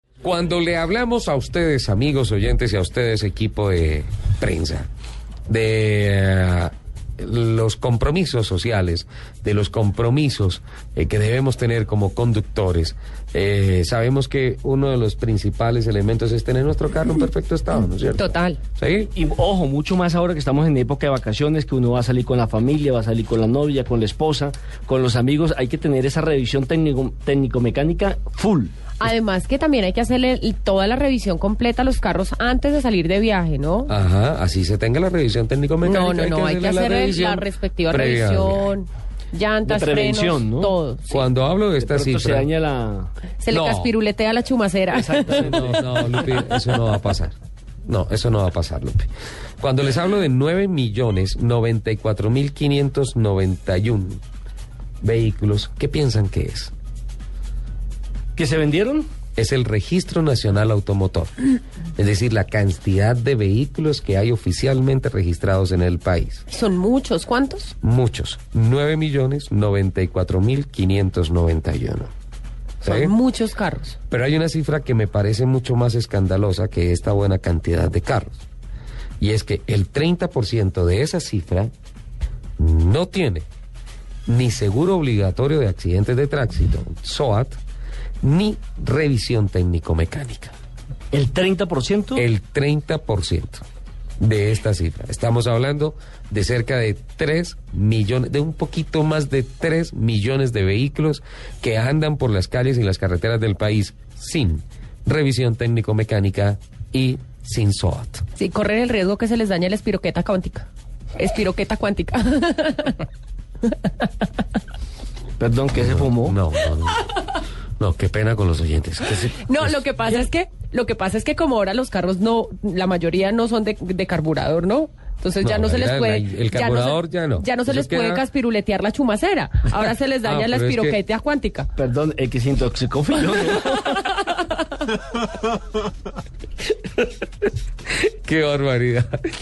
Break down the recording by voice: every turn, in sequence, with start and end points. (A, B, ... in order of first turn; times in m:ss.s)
0:00.2-0:04.9 A
0:05.5-0:19.1 A
0:18.2-0:18.6 B
0:19.2-0:28.7 C
0:29.0-0:33.9 B
0:33.9-0:38.7 A
0:35.8-0:41.2 B
0:39.7-0:40.8 C
0:41.1-0:42.5 A
0:41.8-0:43.1 C
0:43.4-0:45.5 B
0:43.5-0:43.9 A
0:44.9-0:46.3 C
0:45.4-0:54.2 A
0:55.0-0:56.7 A
0:58.4-0:59.1 C
0:59.4-1:01.3 A
1:02.0-1:06.4 A
1:06.5-1:07.8 B
1:07.8-1:12.1 A
1:12.8-1:13.1 A
1:12.8-1:14.0 B
1:14.1-1:18.4 A
1:19.2-1:21.7 A
1:22.6-1:23.4 A
1:24.3-1:27.6 A
1:28.2-1:30.6 A
1:31.1-1:32.2 C
1:32.2-1:33.6 A
1:34.2-1:48.2 A
1:48.4-1:53.1 B
1:55.4-1:56.4 C
1:55.8-1:57.1 A
1:57.8-1:59.8 A
1:59.3-2:11.7 B
2:05.4-2:08.2 A
2:10.2-2:11.0 A
2:11.8-2:14.2 C
2:18.0-2:19.1 A